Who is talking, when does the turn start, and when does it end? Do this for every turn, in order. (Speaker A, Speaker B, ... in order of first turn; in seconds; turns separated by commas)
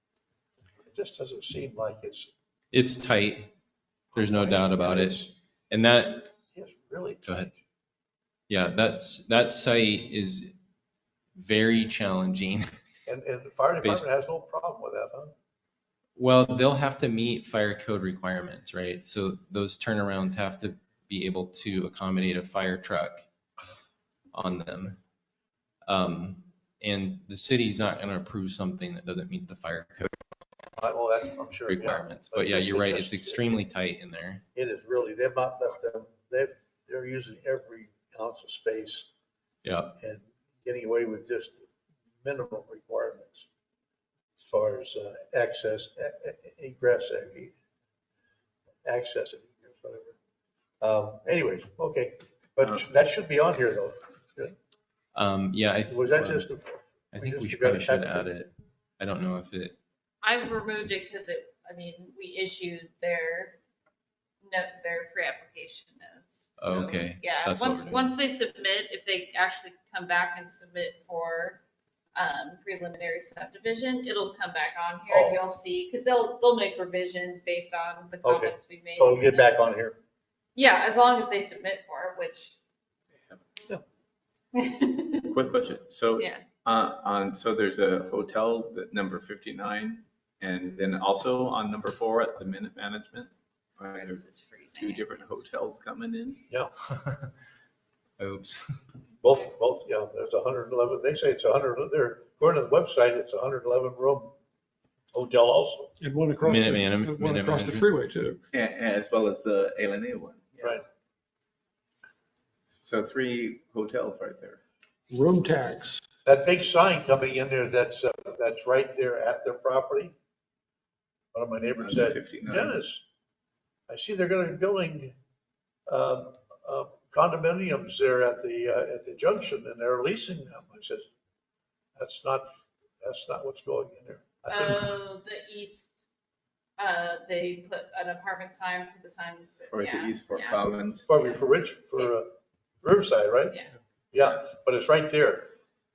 Speaker A: 0.9-2.3, Speaker B: 2.7-3.5, Speaker A: 4.1-5.3, Speaker B: 4.2-6.3, Speaker A: 6.5-7.6, Speaker B: 8.5-10.6, Speaker B: 11.3-12.7, Speaker A: 13.1-15.3, Speaker B: 16.2-23.3, Speaker B: 24.3-25.0, Speaker B: 25.9-30.2, Speaker A: 30.8-33.6, Speaker B: 31.7-34.4, Speaker A: 34.5-39.1, Speaker B: 39.6-39.9, Speaker A: 40.0-41.6, Speaker A: 42.2-43.5, Speaker A: 44.4-47.5, Speaker A: 48.9-50.2, Speaker A: 50.8-54.5, Speaker B: 55.1-56.5, Speaker A: 55.9-58.3, Speaker B: 57.1-59.8, Speaker C: 60.2-63.6, Speaker C: 64.4-71.6, Speaker B: 66.6-68.1, Speaker C: 72.2-79.7, Speaker A: 75.1-75.4, Speaker A: 78.2-80.0, Speaker C: 80.5-82.6, Speaker C: 84.5-85.3, Speaker D: 85.2-94.2, Speaker C: 86.2-86.5, Speaker C: 93.9-95.4, Speaker D: 94.8-96.4, Speaker B: 97.0-97.2, Speaker B: 98.2-98.8, Speaker A: 99.2-104.3, Speaker A: 105.1-105.9, Speaker E: 106.0-108.4, Speaker B: 106.4-107.8, Speaker D: 108.5-110.8, Speaker D: 112.8-114.6, Speaker E: 115.1-116.0, Speaker A: 116.2-120.2, Speaker A: 121.3-123.0, Speaker D: 121.8-122.8, Speaker A: 123.9-125.2, Speaker A: 125.9-131.1, Speaker A: 132.0-134.9, Speaker C: 134.5-136.1, Speaker C: 136.8-141.4, Speaker D: 139.7-141.1, Speaker A: 141.1-142.3, Speaker A: 142.8-143.6, Speaker A: 144.1-145.5